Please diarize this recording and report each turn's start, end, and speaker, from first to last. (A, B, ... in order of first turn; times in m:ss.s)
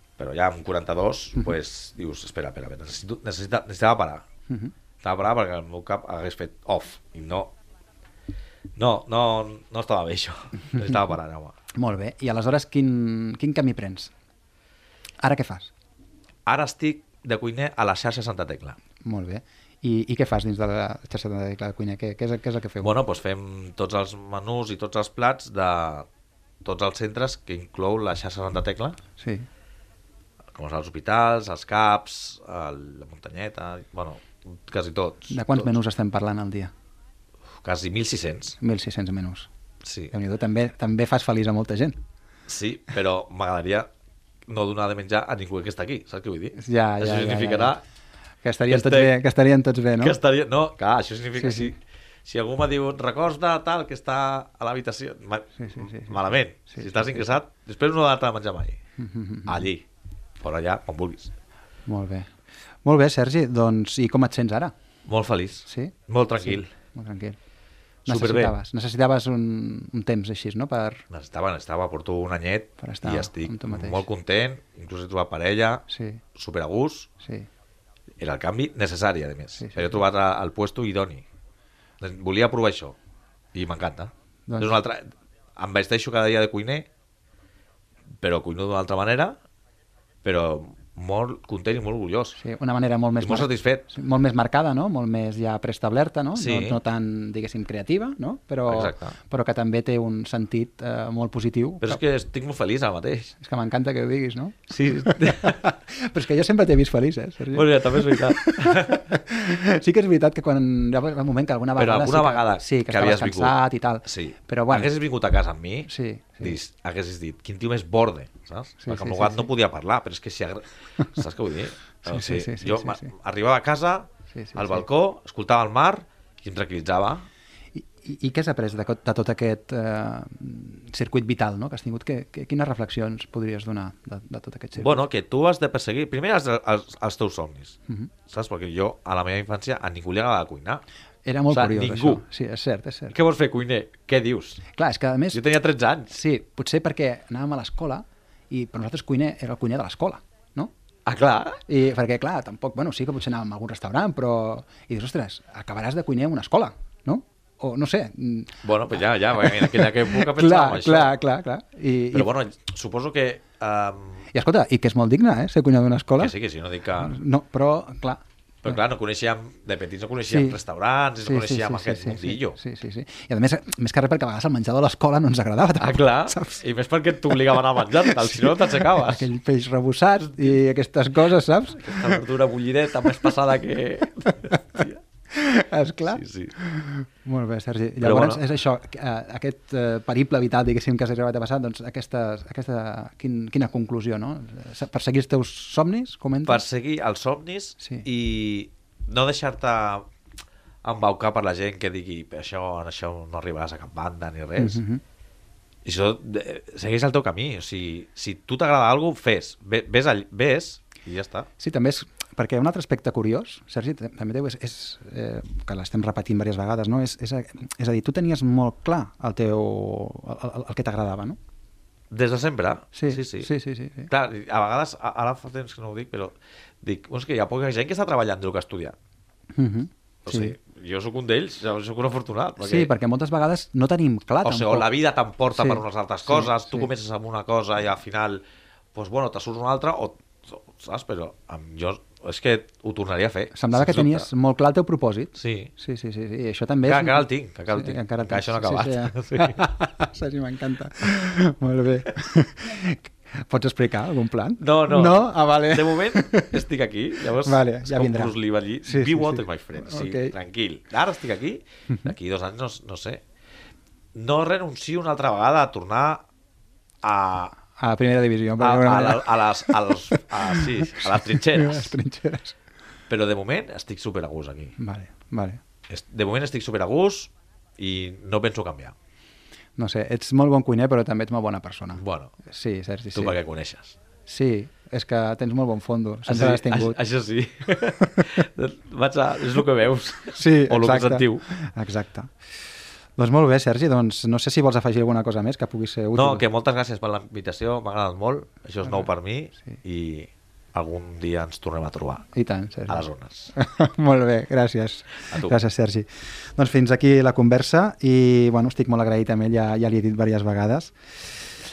0:00.2-0:04.2 A
0:05.0-0:07.5 A
0:08.8-0:11.5 A
0:11.7-0:14.1 B
0:15.2-0:15.7 B
0:16.5-0:18.8 A
0:19.0-0:22.9 B
0:22.8-0:26.1 A
0:26.6-0:29.0 A
0:29.2-0:29.4 B
0:30.5-0:35.7 A
0:35.3-0:36.7 B
0:37.6-0:38.6 A
0:38.6-0:39.5 B
0:39.8-0:40.1 A
0:40.1-0:42.0 B
0:42.5-0:43.9 A
0:44.5-0:47.8 A
0:46.6-0:47.8 B
0:48.4-0:50.2 B
0:48.7-0:49.1 A
0:50.0-0:58.8 A
0:51.4-0:51.7 B
0:55.6-0:57.2 B
0:59.0-0:59.7 B
0:59.4-0:59.8 A
1:00.4-1:01.3 A
1:01.8-1:02.3 B
1:02.8-1:04.7 B
1:05.1-1:06.7 A
1:05.7-1:07.4 B
1:08.1-1:11.0 B
1:08.1-1:08.5 A
1:11.1-1:17.1 A
1:12.8-1:14.0 B
1:15.9-1:16.2 B
1:17.2-1:17.5 B
1:18.2-1:21.2 A
1:19.6-1:20.0 B
1:22.0-1:23.0 A
1:23.5-1:26.9 A
1:24.5-1:24.8 B
1:28.2-1:29.4 A
1:30.2-1:32.4 A
1:32.4-1:42.0 B
1:33.2-1:33.9 A
1:36.4-1:36.8 A
1:38.7-1:39.2 A
1:41.8-1:43.3 A
1:43.4-1:54.9 B
1:44.7-1:45.6 A
1:47.5-1:49.0 A
1:51.8-2:07.3 A
1:55.9-1:56.6 B
1:58.8-1:59.5 B
2:02.1-2:03.1 B
2:04.3-2:04.8 B
2:07.7-2:15.0 B
2:14.8-2:20.8 A
2:21.2-2:23.2 B
2:21.5-2:22.2 A
2:23.1-2:24.6 A
2:24.7-2:25.4 B
2:25.3-2:26.1 A
2:26.1-2:30.7 B
2:31.0-2:31.6 A
2:31.7-2:42.3 B
2:38.6-2:41.2 A
2:42.1-2:44.3 A
2:44.3-2:46.4 B
2:46.2-2:47.2 A
2:47.0-2:48.8 B
2:48.6-2:52.6 A
2:50.3-2:50.6 B
2:51.2-2:56.6 B
2:55.8-2:59.3 A
2:57.3-3:02.2 B
3:01.8-3:05.0 A
3:04.4-3:04.8 B
3:05.3-3:16.6 B
3:06.1-3:06.5 A
3:08.0-3:08.4 A
3:16.4-3:20.1 A
3:17.8-3:18.0 B
3:20.8-3:24.8 A
3:24.6-3:25.0 B
3:25.8-3:31.5 A
3:31.6-3:41.4 B
3:42.1-3:43.5 A
3:42.9-3:44.1 B
3:44.0-3:49.0 A
3:49.5-3:50.5 B
3:50.2-3:52.9 A
3:52.6-3:54.9 B
3:54.4-3:58.4 A
3:55.6-3:56.9 B
3:58.9-4:04.3 A
4:03.5-4:16.6 B
4:05.4-4:05.7 A
4:06.9-4:09.6 A
4:14.6-4:23.2 A
4:17.2-4:20.3 B
4:24.1-4:26.2 A
4:27.0-4:27.6 A
4:27.8-4:32.5 B
4:28.6-4:32.0 A
4:33.1-4:34.8 A
4:34.8-4:35.6 B
4:35.9-4:38.9 A
4:39.8-4:43.4 B
4:42.0-4:42.3 A
4:43.1-4:44.0 A
4:44.3-4:47.0 B
4:46.2-4:51.4 A
4:50.3-4:52.4 B
4:53.2-4:56.4 B
4:56.1-5:02.3 A
5:02.3-5:11.4 B
5:02.9-5:03.5 A
5:05.2-5:05.5 A